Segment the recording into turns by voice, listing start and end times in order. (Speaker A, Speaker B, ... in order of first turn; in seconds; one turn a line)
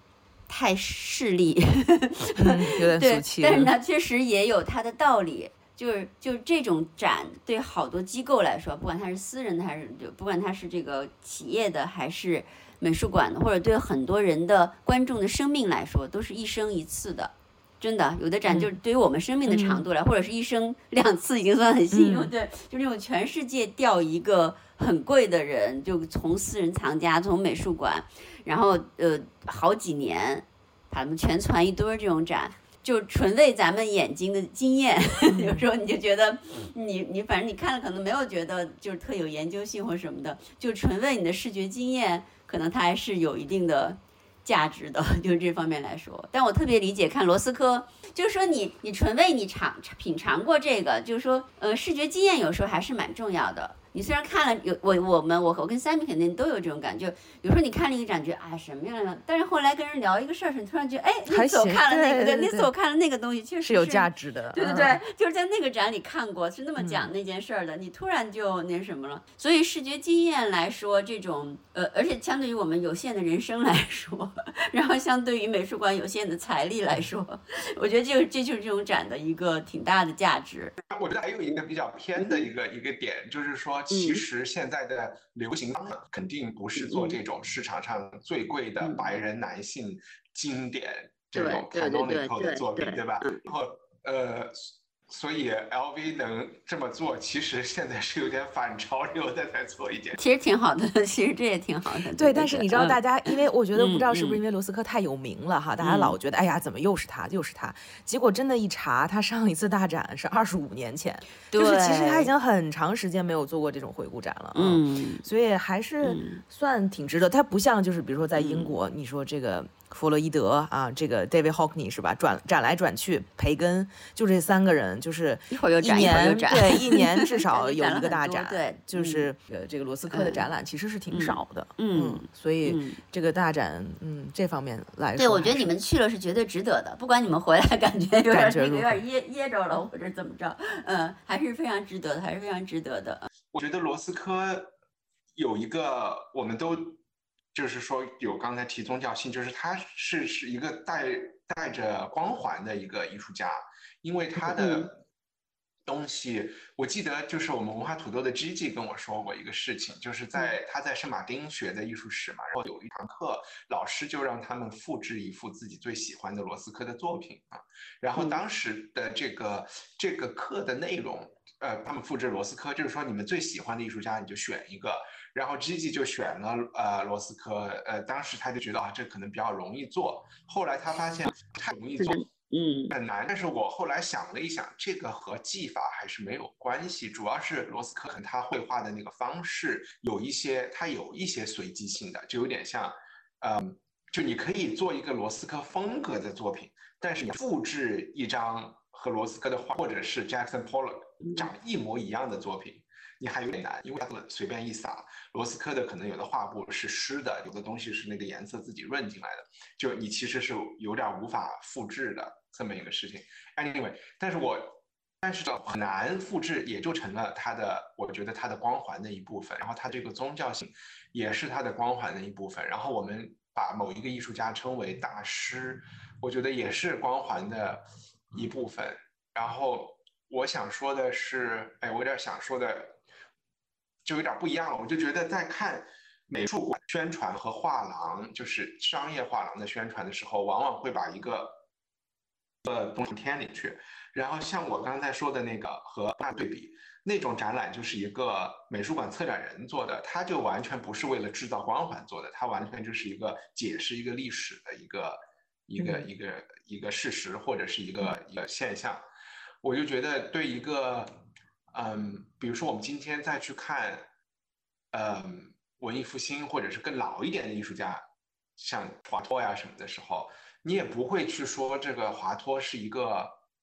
Speaker A: 0.5-80.8
Speaker B: 2.4-3.7
Speaker B: 18.5-18.7
Speaker B: 19.5-19.8
Speaker B: 21.9-22.3
Speaker B: 35.3-35.6
Speaker B: 61.3-62.7
Speaker B: 63.6-65.0
Speaker B: 66.8-67.1
Speaker C: 80.9-100.2
Speaker A: 82.2-82.5
Speaker A: 83.9-84.2
Speaker A: 86.8-87.2
Speaker A: 88.8-89.1
Speaker A: 91.3-93.4
Speaker A: 100.2-104.4
Speaker B: 102.1-135.7
Speaker A: 105.8-106.2
Speaker A: 111.5-112.3
Speaker A: 114.5-115.2
Speaker A: 116.0-116.4
Speaker A: 118.3-118.7
Speaker A: 125.5-129.3
Speaker A: 130.1-130.4
Speaker A: 131.1-133.0
Speaker A: 135.2-143.3
Speaker B: 138.3-139.0
Speaker C: 143.5-144.7
Speaker C: 145.3-147.0
Speaker C: 147.5-155.0
Speaker A: 154.4-154.9
Speaker C: 155.8-233.0
Speaker A: 182.0-182.9
Speaker C: 234.0-241.6
Speaker C: 242.6-259.0
Speaker C: 259.6-261.2
Speaker C: 261.7-264.1
Speaker C: 264.9-268.0
Speaker C: 268.6-273.4